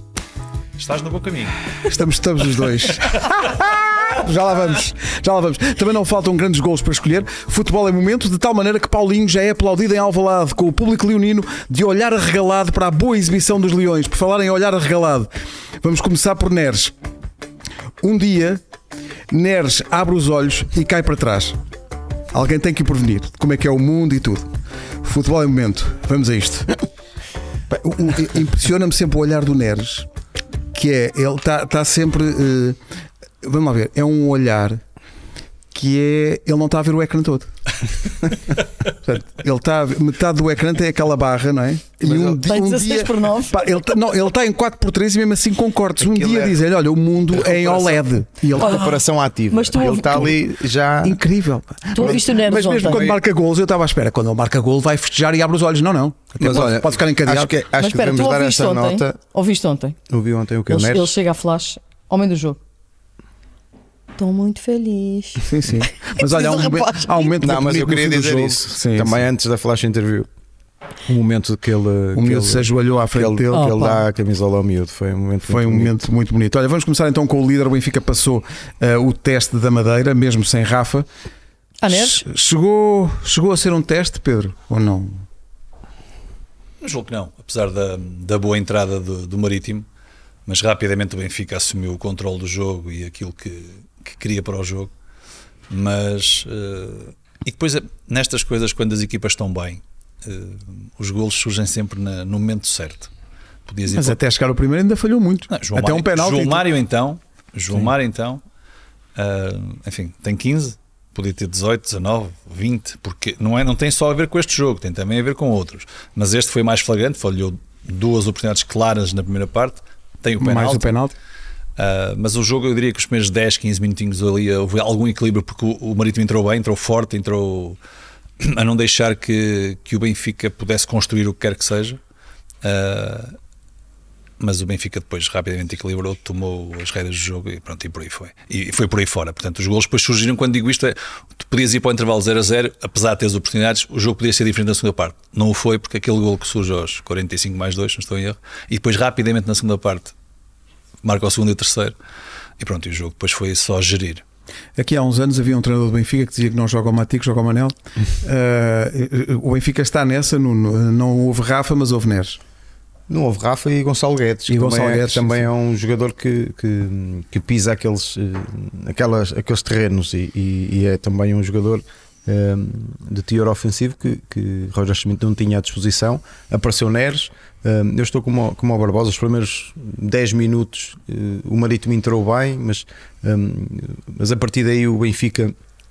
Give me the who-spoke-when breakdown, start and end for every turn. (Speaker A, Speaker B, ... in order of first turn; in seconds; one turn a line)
Speaker A: 0.8-1.6
Speaker B: 1.8-15.3
Speaker B: 15.8-16.9
Speaker B: 18.0-18.6
Speaker B: 19.3-21.6
Speaker B: 22.3-24.5
Speaker B: 25.0-26.7
Speaker B: 27.7-30.1
Speaker B: 30.7-32.8
Speaker B: 33.4-34.8
Speaker B: 35.7-37.5
Speaker B: 38.9-48.9
Speaker C: 42.0-42.4
Speaker D: 42.4-43.6
Speaker C: 46.0-46.6
Speaker C: 47.3-51.2
Speaker D: 48.6-49.0
Speaker D: 49.5-50.4
Speaker B: 51.0-57.5
Speaker D: 51.9-53.1
Speaker C: 52.8-53.1
Speaker C: 56.4-59.2
Speaker D: 57.8-60.0
Speaker C: 60.1-61.1
Speaker D: 60.7-62.6
Speaker D: 64.2-65.4
Speaker B: 65.4-69.2
Speaker D: 66.2-67.4
Speaker C: 67.4-70.3
Speaker C: 71.1-75.9
Speaker B: 72.1-73.7
Speaker D: 73.5-74.0
Speaker B: 75.5-81.1
Speaker D: 81.8-82.2
Speaker B: 81.9-85.2
Speaker A: 86.8-89.8
Speaker A: 90.5-94.9
Speaker A: 95.7-103.1
Speaker A: 103.7-104.2
Speaker B: 103.9-106.6
Speaker A: 105.5-108.4
Speaker A: 109.2-120.9
Speaker B: 120.4-121.1
Speaker A: 121.8-127.8
Speaker A: 128.4-132.0
Speaker A: 132.6-133.4
Speaker A: 134.4-150.1
Speaker A: 151.0-151.9
Speaker A: 152.6-154.2
Speaker B: 154.8-162.4
Speaker C: 163.1-185.5
Speaker B: 164.5-165.4